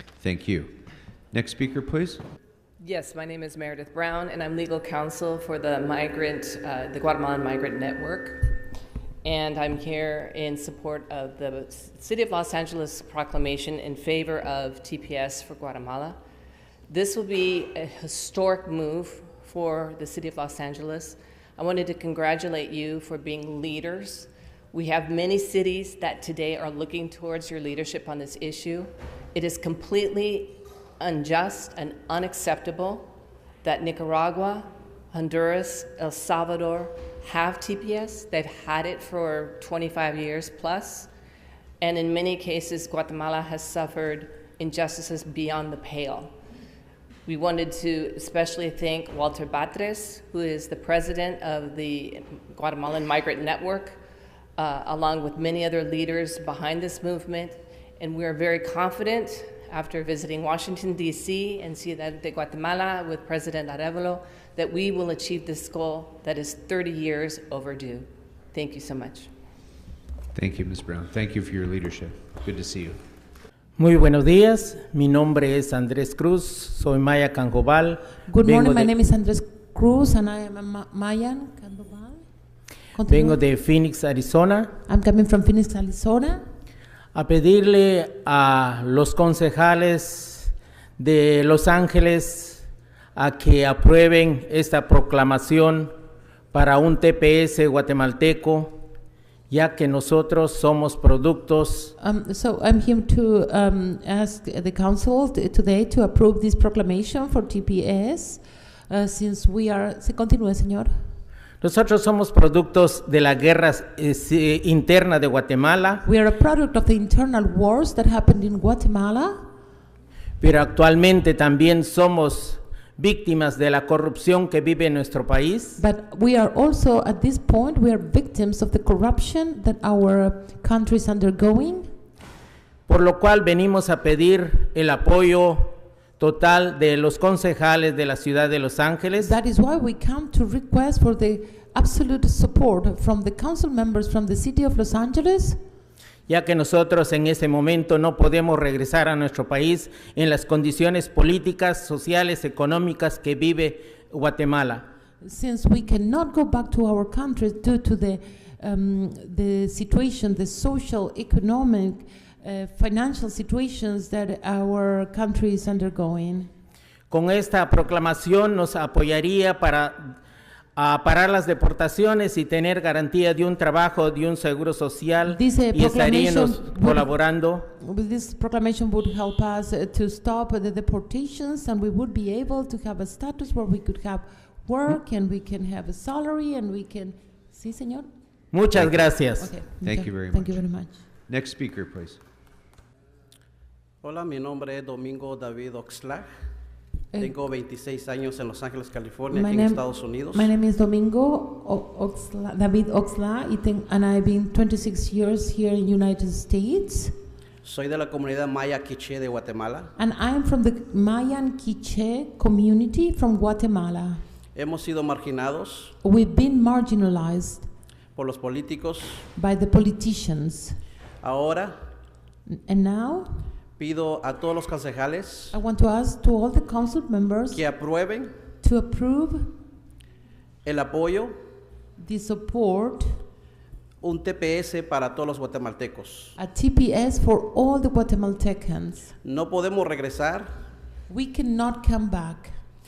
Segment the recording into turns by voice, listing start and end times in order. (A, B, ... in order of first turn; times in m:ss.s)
0:00.2-0:00.7 A
0:01.3-0:02.2 A
0:02.8-0:08.6 B
0:09.2-0:16.2 B
0:16.9-0:33.1 B
0:33.6-0:41.1 B
0:41.8-0:46.3 B
0:47.2-0:54.0 B
0:54.6-1:09.3 B
1:10.3-1:13.0 A
1:13.8-1:18.9 C
1:18.2-1:22.2 D
1:22.9-1:23.4 D
1:23.1-1:24.7 C
1:24.8-1:26.4 D
1:27.1-1:32.6 C
1:33.2-1:35.9 C
1:36.5-1:38.8 C
1:39.5-1:41.9 C
1:42.0-1:50.9 D
1:51.6-1:56.0 C
1:56.0-1:59.5 D
2:00.4-2:05.8 C
2:05.8-2:11.9 D
2:12.9-2:19.3 C
2:19.2-2:25.6 D
2:26.3-2:34.8 C
2:35.2-2:46.5 D
2:47.1-2:50.1 C
2:50.8-2:57.6 C
2:55.2-2:57.1 D
2:57.8-3:08.1 D
3:08.5-3:09.5 C
3:08.7-3:09.0 A
3:09.4-3:11.0 D
3:09.8-3:10.6 A
3:11.3-3:12.2 A
3:14.0-3:16.3 E
3:17.1-3:17.4 D
3:17.2-3:20.5 E
3:19.3-3:27.1 D
3:27.6-3:29.9 E
3:30.0-3:34.2 D
3:34.5-3:35.9 E
3:36.0-3:37.7 D
3:38.2-3:39.2 E
3:39.3-3:40.8 D
3:41.2-3:41.8 E
3:42.5-3:43.4 D
3:43.8-3:45.5 E
3:45.5-3:47.6 D
3:47.5-3:48.3 E
3:48.6-3:49.5 D
3:50.6-3:51.4 E
3:52.0-3:53.2 D
3:54.0-3:56.3 E
3:56.4-3:59.1 D
3:59.2-4:00.5 E
4:01.1-4:02.5 D